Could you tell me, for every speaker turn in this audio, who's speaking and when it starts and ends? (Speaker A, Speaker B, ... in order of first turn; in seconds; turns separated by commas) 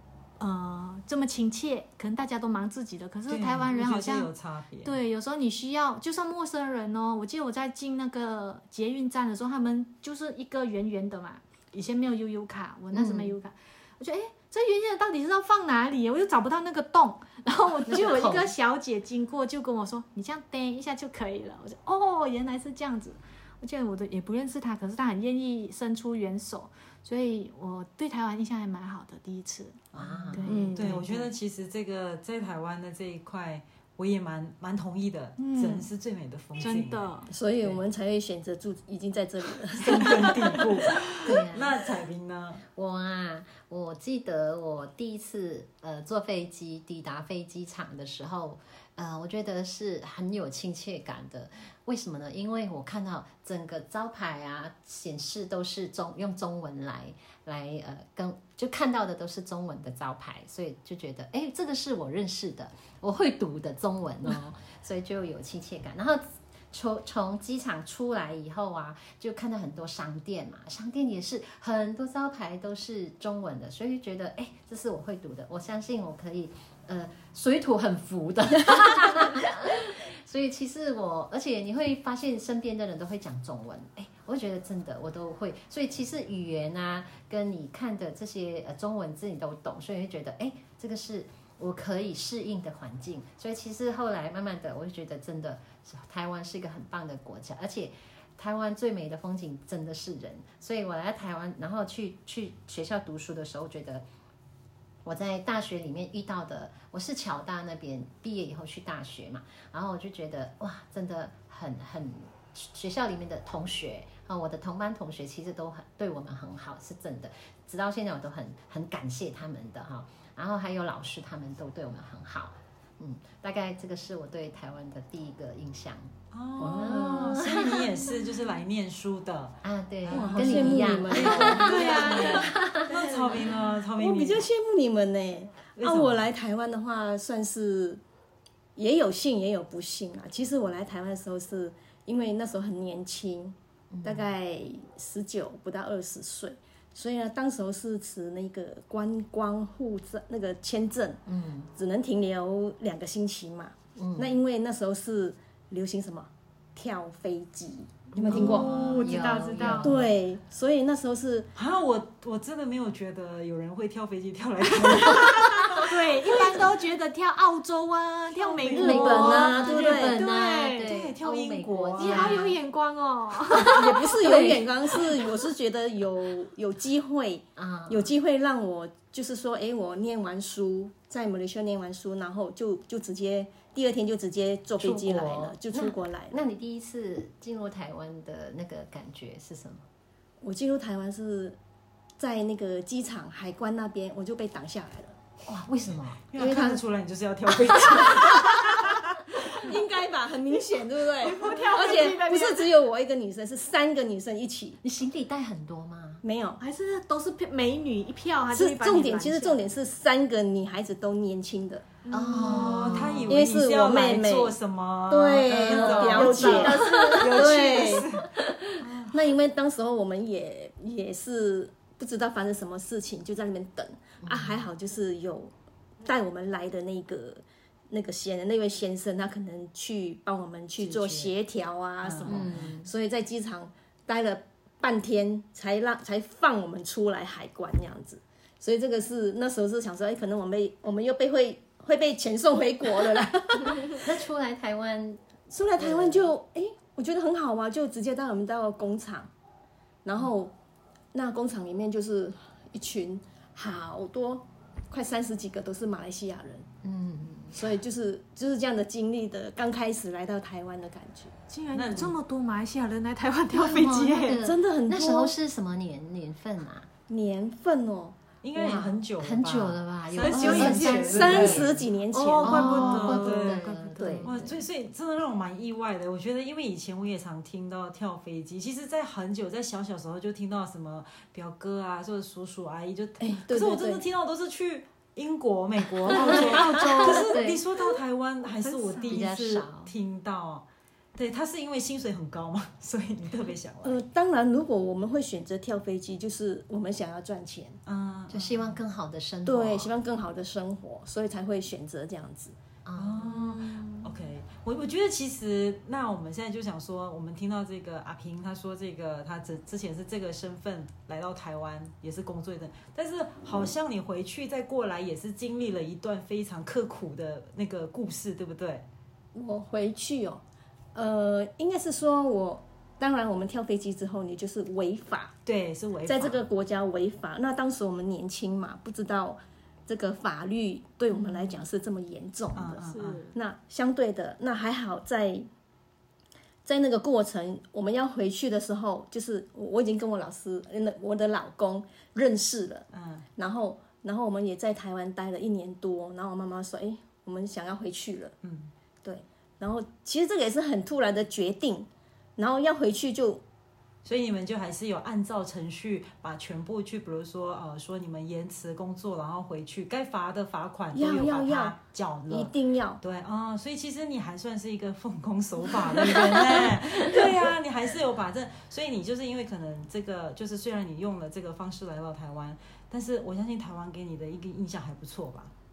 Speaker A: 0.4-4.3, Speaker B: 3.3-5.0, Speaker A: 4.8-30.9, Speaker C: 12.9-13.3, Speaker C: 17.9-18.5, Speaker C: 29.9-31.3, Speaker D: 30.4-31.0, Speaker B: 30.7-37.1, Speaker A: 35.4-35.9, Speaker A: 36.6-37.3, Speaker D: 37.3-40.6, Speaker B: 39.8-42.6, Speaker C: 41.2-41.8, Speaker C: 42.7-104.0, Speaker C: 105.0-128.1, Speaker B: 126.3-134.5, Speaker C: 129.6-132.9, Speaker D: 130.1-132.3, Speaker A: 131.1-133.6, Speaker D: 133.9-138.0, Speaker B: 135.7-136.3, Speaker D: 138.8-151.2, Speaker C: 143.9-144.3, Speaker C: 151.2-151.7, Speaker D: 151.7-158.7, Speaker C: 153.9-154.3, Speaker A: 158.2-160.0, Speaker C: 158.3-160.1, Speaker B: 158.4-159.1, Speaker D: 159.7-161.5, Speaker B: 161.5-166.4, Speaker A: 164.7-170.9, Speaker B: 168.3-170.1, Speaker D: 168.7-170.2, Speaker C: 168.8-172.5, Speaker B: 170.8-172.6, Speaker A: 171.9-173.8, Speaker C: 173.5-174.7, Speaker D: 173.5-186.4, Speaker C: 177.6-178.1, Speaker C: 184.8-189.8, Speaker D: 190.4-191.6, Speaker D: 192.2-195.1, Speaker C: 195.5-196.8, Speaker B: 196.3-199.6, Speaker D: 199.6-204.8, Speaker A: 201.2-202.7, Speaker C: 204.8-206.2, Speaker D: 206.2-206.6, Speaker A: 206.6-209.6, Speaker D: 208.5-211.8, Speaker A: 212.0-213.2, Speaker C: 212.1-213.3, Speaker B: 212.5-218.2, Speaker D: 213.3-214.6, Speaker D: 215.1-218.1, Speaker C: 215.6-217.5, Speaker A: 215.7-217.2, Speaker C: 218.3-218.8, Speaker B: 218.8-219.2, Speaker D: 219.1-225.5, Speaker C: 224.2-224.7, Speaker D: 226.0-244.0, Speaker B: 230.8-231.3, Speaker B: 232.0-232.5, Speaker C: 232.2-232.9, Speaker C: 243.9-245.2, Speaker D: 245.5-249.3, Speaker C: 245.8-246.3, Speaker D: 250.0-250.5, Speaker D: 251.1-256.7, Speaker C: 256.8-257.6, Speaker D: 257.5-261.3, Speaker A: 261.5-264.4, Speaker B: 261.7-262.1, Speaker C: 263.5-266.9, Speaker D: 264.4-265.3, Speaker D: 267.1-268.9, Speaker B: 268.4-271.8, Speaker C: 268.6-271.8, Speaker A: 270.2-271.6, Speaker D: 270.2-272.7, Speaker A: 272.1-273.8, Speaker C: 272.4-274.6, Speaker B: 272.4-273.6, Speaker D: 273.9-274.3, Speaker B: 274.2-294.0, Speaker D: 283.2-284.0, Speaker A: 286.1-287.4, Speaker C: 286.1-287.6, Speaker A: 288.6-289.2, Speaker C: 289.1-289.9, Speaker D: 293.8-297.8, Speaker B: 297.8-298.8, Speaker C: 298.3-299.9, Speaker D: 299.4-302.5, Speaker C: 302.8-303.9, Speaker B: 302.9-318.8, Speaker D: 319.3-320.4, Speaker D: 320.9-325.3, Speaker B: 325.4-326.4, Speaker D: 326.1-335.5, Speaker B: 332.5-333.3, Speaker A: 332.9-333.3, Speaker D: 336.6-342.9, Speaker B: 342.9-343.2, Speaker D: 343.4-348.3, Speaker B: 348.4-348.7, Speaker D: 349.0-353.4, Speaker B: 354.0-375.5, Speaker D: 360.9-361.8, Speaker D: 362.3-363.0